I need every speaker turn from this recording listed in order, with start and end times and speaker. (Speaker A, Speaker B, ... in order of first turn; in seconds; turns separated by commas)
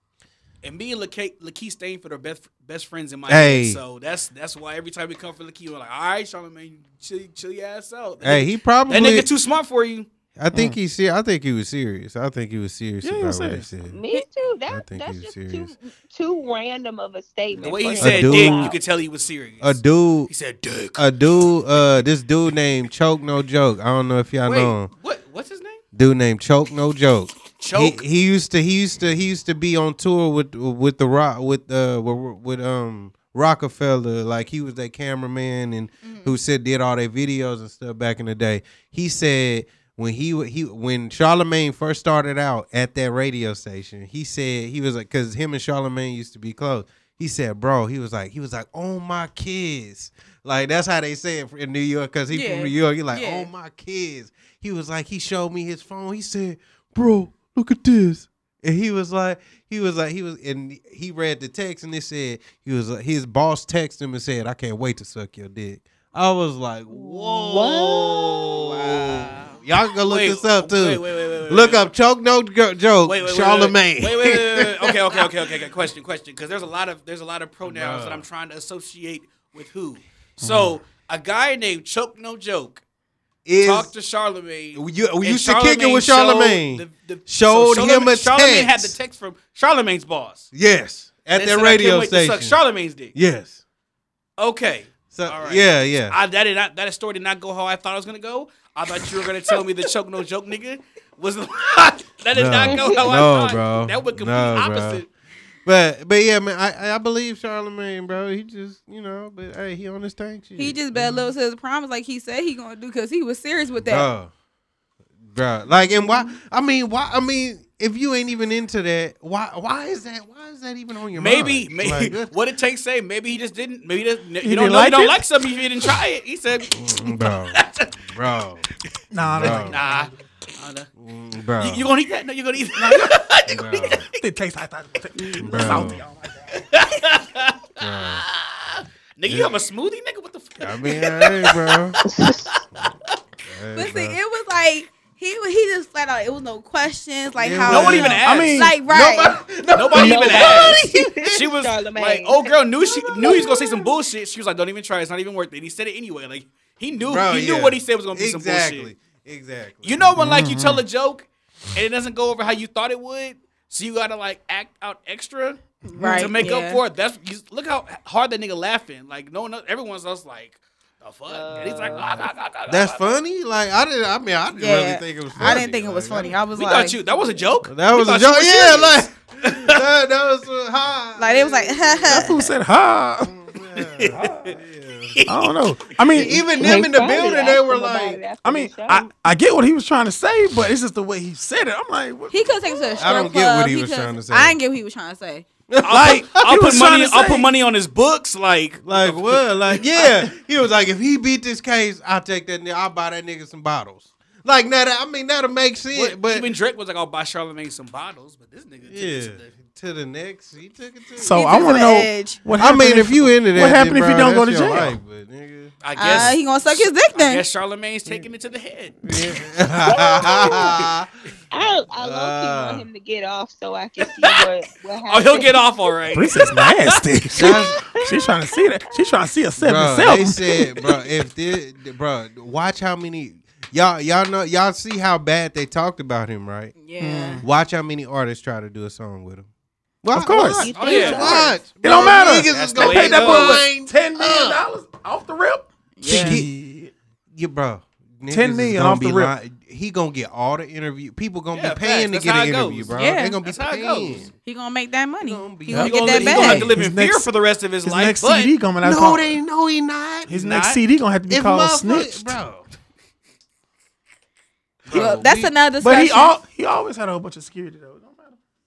Speaker A: 0.6-10.1, Speaker B: 3.3-3.8, Speaker B: 8.2-9.3, Speaker B: 10.4-14.0, Speaker C: 13.0-13.7, Speaker D: 13.9-18.8, Speaker B: 14.7-15.7, Speaker A: 17.6-21.0, Speaker B: 18.0-18.8, Speaker B: 19.6-20.3, Speaker B: 20.9-24.9, Speaker A: 24.5-25.8, Speaker B: 25.9-75.5, Speaker A: 27.6-28.0, Speaker E: 36.0-36.4, Speaker E: 52.3-53.5, Speaker D: 66.9-68.5, Speaker A: 68.7-71.9, Speaker A: 73.0-82.8, Speaker B: 77.7-78.3, Speaker C: 80.4-80.8, Speaker B: 83.5-83.9, Speaker A: 83.6-90.5, Speaker B: 84.7-89.0, Speaker B: 90.5-92.6, Speaker A: 91.3-93.1, Speaker B: 93.1-93.6, Speaker A: 94.4-105.1, Speaker B: 95.1-96.2, Speaker B: 102.3-105.1, Speaker D: 102.7-103.3, Speaker B: 105.7-110.8, Speaker E: 110.6-114.1, Speaker B: 113.8-114.3, Speaker B: 115.3-122.3, Speaker A: 121.2-128.0, Speaker C: 124.4-125.2, Speaker B: 126.7-128.7, Speaker C: 129.1-130.2, Speaker B: 129.2-129.8, Speaker A: 129.4-130.9, Speaker B: 131.0-131.9, Speaker A: 131.6-134.2, Speaker C: 132.8-133.1, Speaker B: 133.5-134.1, Speaker C: 134.2-136.7, Speaker B: 135.4-136.0, Speaker A: 135.5-135.9, Speaker A: 136.5-142.9, Speaker B: 137.8-138.3, Speaker B: 139.2-139.6, Speaker B: 140.6-142.0, Speaker D: 142.1-142.6, Speaker B: 143.5-144.2, Speaker E: 143.8-149.4, Speaker B: 147.4-148.2, Speaker A: 147.7-148.7, Speaker C: 148.2-148.8, Speaker B: 148.9-150.6, Speaker A: 149.7-158.9, Speaker D: 149.9-153.8, Speaker C: 150.0-151.1, Speaker B: 157.0-160.1, Speaker A: 159.8-173.1, Speaker C: 160.2-160.8, Speaker C: 165.9-166.3, Speaker E: 165.9-166.8, Speaker D: 171.3-172.2, Speaker B: 172.7-176.4, Speaker E: 174.6-177.1, Speaker A: 176.5-179.8, Speaker B: 177.6-182.5, Speaker E: 181.2-182.5, Speaker C: 182.1-183.3, Speaker B: 183.2-185.2, Speaker A: 183.7-184.6, Speaker C: 184.1-184.5, Speaker A: 185.1-185.5, Speaker C: 185.3-186.5, Speaker B: 186.1-188.2, Speaker D: 186.5-189.1, Speaker C: 188.4-192.9, Speaker E: 192.3-195.5, Speaker B: 193.0-194.6, Speaker B: 195.7-196.4, Speaker A: 195.8-200.3, Speaker C: 195.9-197.5, Speaker B: 198.8-206.5, Speaker A: 205.9-209.6, Speaker B: 208.9-211.8, Speaker E: 211.2-212.4, Speaker C: 211.2-215.0, Speaker B: 212.6-216.3, Speaker A: 215.8-219.1, Speaker E: 216.0-217.4, Speaker B: 219.0-221.1, Speaker D: 219.9-220.9, Speaker D: 221.5-225.9, Speaker B: 222.0-222.8, Speaker A: 225.1-227.0, Speaker C: 226.1-230.4, Speaker B: 227.3-227.8, Speaker D: 227.4-229.1, Speaker B: 229.6-236.8, Speaker E: 236.8-237.4, Speaker C: 237.0-237.5, Speaker B: 237.4-239.5, Speaker B: 240.0-244.7, Speaker C: 240.1-240.7, Speaker D: 240.6-241.7, Speaker A: 240.7-243.7, Speaker C: 241.8-246.9, Speaker E: 246.0-246.4, Speaker B: 246.0-246.6, Speaker B: 247.3-254.3, Speaker C: 248.3-249.3, Speaker A: 251.5-254.3, Speaker E: 253.0-253.4, Speaker E: 254.4-256.7, Speaker B: 255.2-256.6, Speaker A: 255.8-258.5, Speaker C: 256.2-257.3, Speaker C: 257.8-259.4, Speaker B: 258.8-260.4, Speaker C: 260.3-262.3, Speaker A: 260.3-260.8, Speaker B: 261.3-262.6, Speaker B: 264.9-265.5, Speaker A: 264.9-265.1, Speaker E: 264.9-266.4, Speaker C: 265.8-268.4